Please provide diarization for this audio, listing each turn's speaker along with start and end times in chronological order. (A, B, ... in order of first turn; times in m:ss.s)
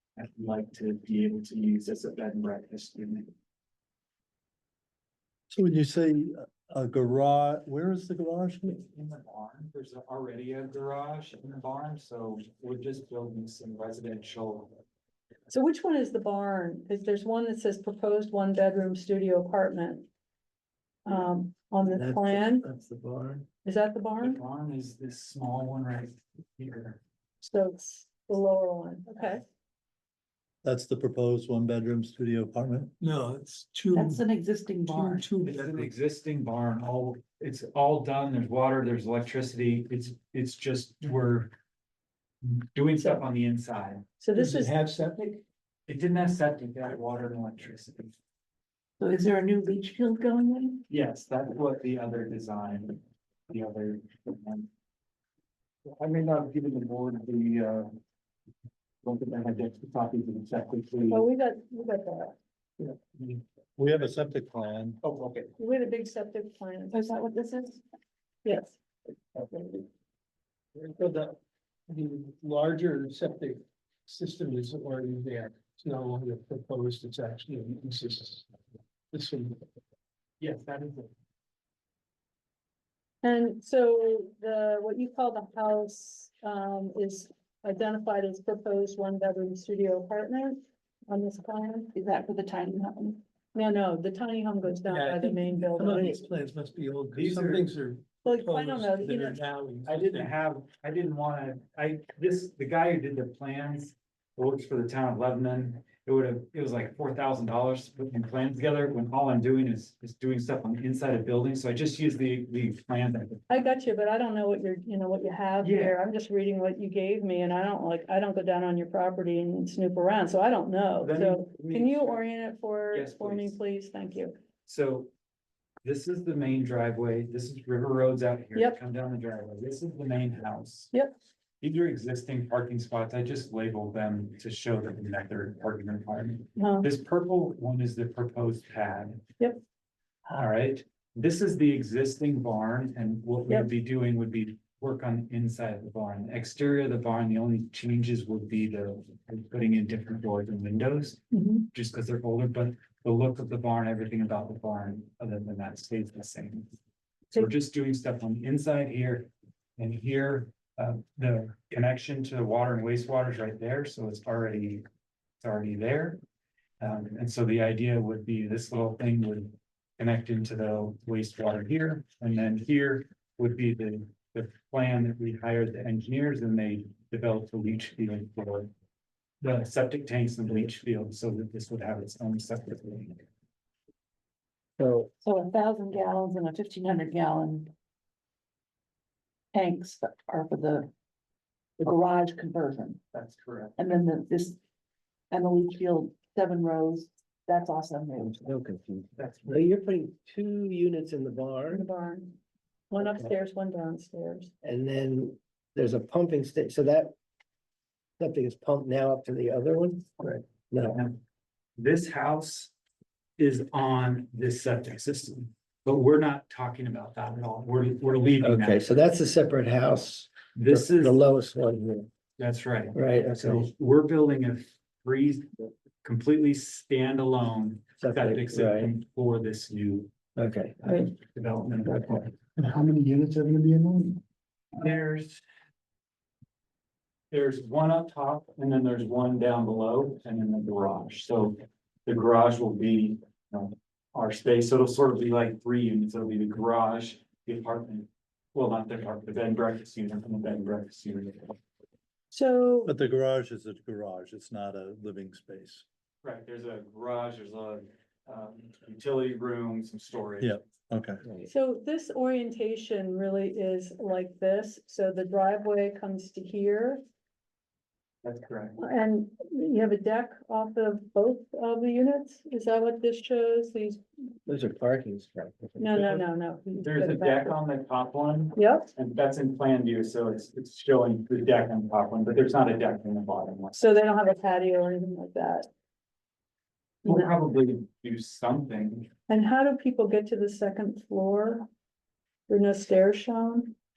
0:00.2-0:03.3 A
0:05.5-0:08.8 B
0:08.6-0:14.8 A
0:15.5-0:20.1 C
0:21.0-0:22.6 C
0:21.8-0:23.4 D
0:23.6-0:24.4 C
0:24.2-0:27.0 A
0:27.4-0:29.4 C
0:30.6-0:32.9 B
0:33.0-0:34.2 E
0:33.9-0:35.3 F
0:34.9-0:35.9 E
0:35.4-0:41.5 A
0:42.4-0:44.0 A
0:44.2-0:44.7 C
0:44.3-0:45.4 E
0:45.9-0:48.1 A
0:49.0-0:50.8 F
0:50.9-0:54.7 A
0:55.8-0:57.9 A
0:59.0-1:01.2 A
1:01.1-1:02.4 C
1:02.8-1:03.4 A
1:03.8-1:05.0 B
1:05.0-1:05.5 A
1:05.6-1:07.0 C
1:06.9-1:07.8 F
1:08.4-1:08.8 C
1:10.7-1:11.4 E
1:11.9-1:18.5 E
1:19.1-1:19.6 E
1:20.4-1:21.1 A
1:23.2-1:31.9 C
1:31.9-1:33.2 F
1:33.5-1:36.2 C
1:34.8-1:40.3 E
1:37.1-1:37.6 A
1:38.2-1:39.4 C
1:39.8-1:53.4 A
1:53.5-2:04.3 C
1:55.6-1:56.0 A
2:01.0-2:02.2 A
2:02.9-2:03.6 A
2:04.6-2:05.1 A
2:05.8-2:10.9 A
2:11.6-2:19.2 A
2:16.6-2:16.9 C
2:20.3-2:36.7 A
2:31.3-2:31.7 C
2:37.3-2:44.8 A
2:45.4-2:46.2 A
2:46.8-2:58.7 A
2:59.4-3:03.2 A
3:04.8-3:05.1 D
3:05.2-3:07.7 F
3:09.5-3:10.9 F
3:11.8-3:13.0 F
3:13.1-3:13.8 A
3:13.8-3:14.6 F
3:15.3-3:18.4 F
3:18.2-3:21.9 D
3:19.2-3:19.6 A
3:21.7-3:22.4 C
3:22.9-3:24.5 C
3:24.6-3:27.1 D
3:28.2-3:31.0 D
3:30.3-3:31.2 A
3:31.8-3:32.7 A
3:33.4-3:38.8 A
3:38.4-3:42.1 D
3:40.5-3:41.2 A
3:42.4-3:50.1 A
3:42.9-3:43.7 D
3:48.0-3:48.9 D
3:50.4-3:51.0 D
3:50.9-3:54.0 A
3:51.9-3:52.2 D
3:54.8-3:55.4 A
3:57.3-4:11.6 A
4:12.3-4:12.9 C
4:12.8-4:15.8 B
4:16.2-4:20.5 A
4:20.4-4:21.2 B
4:21.4-4:27.0 C
4:28.2-4:28.8 A
4:28.8-4:34.0 C
4:34.4-4:36.0 D
4:35.8-4:37.6 C
4:35.9-4:36.2 A
4:36.8-4:43.8 A
4:38.6-4:38.9 C
4:43.7-4:45.7 C
4:47.0-4:49.1 A
4:49.3-4:51.7 C
4:52.5-4:53.7 C